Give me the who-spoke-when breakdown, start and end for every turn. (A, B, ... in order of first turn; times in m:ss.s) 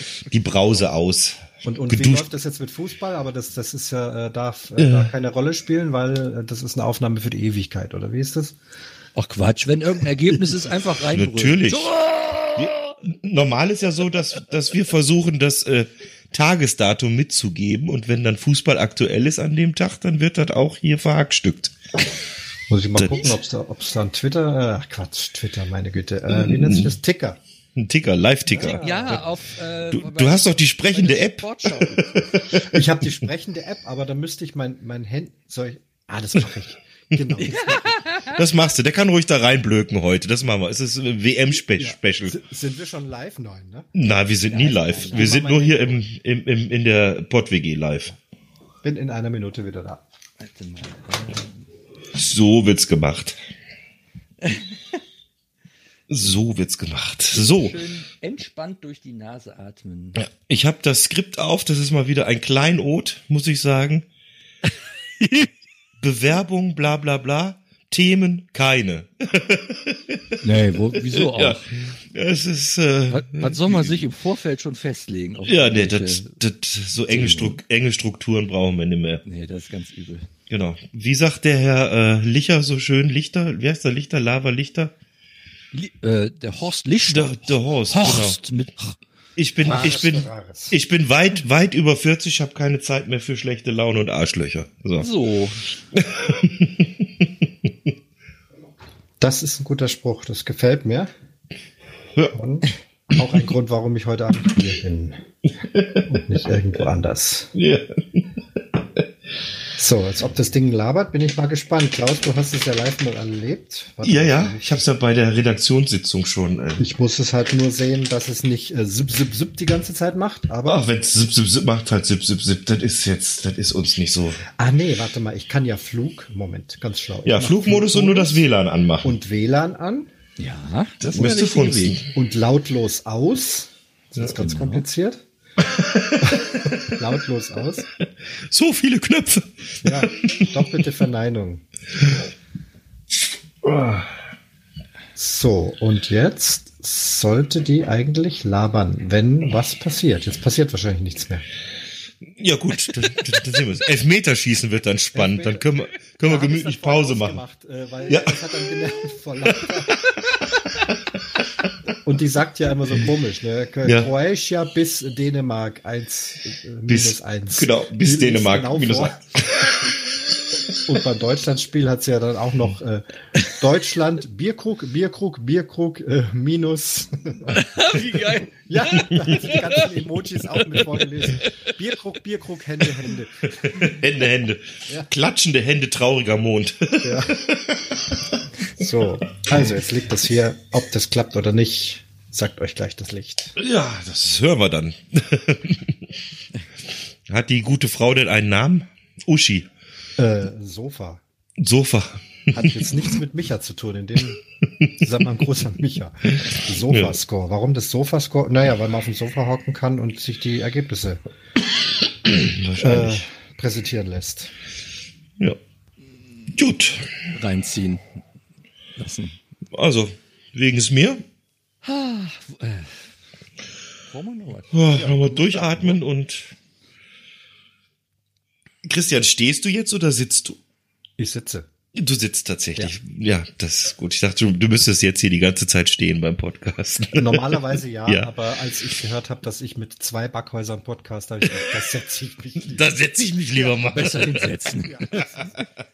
0:00.3-0:02.3 A
0:01.6-0:08.6 B
0:04.8-0:05.1 A
0:09.2-0:12.9 C
0:11.1-0:11.9 A
0:12.6-0:21.7 A
0:22.7-0:27.4 B
0:23.0-0:23.4 A
0:26.3-0:27.0 A
0:27.8-0:29.2 A
0:28.4-0:29.2 B
0:28.6-0:32.3 C
0:29.9-0:33.2 A
0:32.5-0:37.9 B
0:37.4-0:38.4 C
0:38.2-0:42.4 A
0:41.7-0:43.9 B
0:43.9-0:48.1 A
0:44.4-0:45.4 C
0:45.0-0:46.0 B
0:48.8-0:50.0 B
0:50.4-0:51.5 C
0:52.1-0:53.4 A
0:54.4-0:54.7 C
0:56.1-0:57.8 A
0:57.3-1:00.2 C
1:00.2-1:04.0 A
1:05.2-1:05.5 C
1:06.0-1:14.1 A
1:10.4-1:11.7 C
1:13.1-1:16.4 C
1:15.4-1:19.2 A
1:17.0-1:17.6 C
1:19.2-1:20.2 C
1:20.5-1:24.9 A
1:25.7-1:29.0 C
1:27.0-1:28.4 A
1:29.4-1:35.1 A
1:29.6-1:30.8 B
1:35.0-1:35.6 C
1:35.9-1:37.5 A
1:39.2-1:41.1 B
1:42.3-1:45.2 B
1:45.6-1:46.2 A
1:46.1-1:47.5 B
1:47.5-1:48.2 A
1:49.8-1:54.8 B
1:54.0-1:56.8 A
1:56.8-2:00.8 B
2:00.6-2:04.4 A
2:04.6-2:08.4 B
2:07.2-2:09.2 A
2:09.0-2:10.1 B
2:10.4-2:12.0 C
2:11.0-2:12.1 A
2:12.1-2:15.2 B
2:14.4-2:14.8 C
2:15.9-2:16.9 A
2:16.2-2:17.8 B
2:18.5-2:20.7 A
2:19.8-2:21.6 B
2:23.6-2:24.1 A
2:25.2-2:31.4 B
2:32.2-2:37.4 A
2:35.1-2:35.7 B
2:36.2-2:40.0 B
2:38.1-2:38.5 A
2:39.5-2:40.9 A
2:42.0-2:49.2 B
2:43.8-2:44.1 A
2:46.9-2:49.7 A
2:50.8-3:03.7 B
2:57.5-2:58.5 C
2:59.3-2:59.9 C
3:03.6-3:08.2 A
3:07.0-3:07.3 B
3:08.7-3:13.6 B
3:13.6-3:16.0 A
3:17.3-3:19.7 A
3:20.2-3:21.2 B
3:21.6-3:23.0 A
3:22.5-3:24.4 B
3:25.0-3:31.2 B
3:26.9-3:27.2 A
3:32.2-3:33.2 A
3:32.8-3:34.5 B
3:36.5-3:37.2 A
3:37.3-3:38.0 C
3:39.0-3:39.3 C
3:39.7-3:41.2 A
3:41.8-3:43.0 C
3:44.1-3:44.7 C
3:44.7-3:46.5 A
3:44.9-3:46.0 B
3:48.8-3:50.6 A
3:51.2-3:51.7 B
3:51.9-3:58.4 A
3:57.1-4:02.9 B
4:01.4-4:01.8 A
4:02.6-4:04.5 A
4:03.8-4:05.5 C
4:04.8-4:05.5 B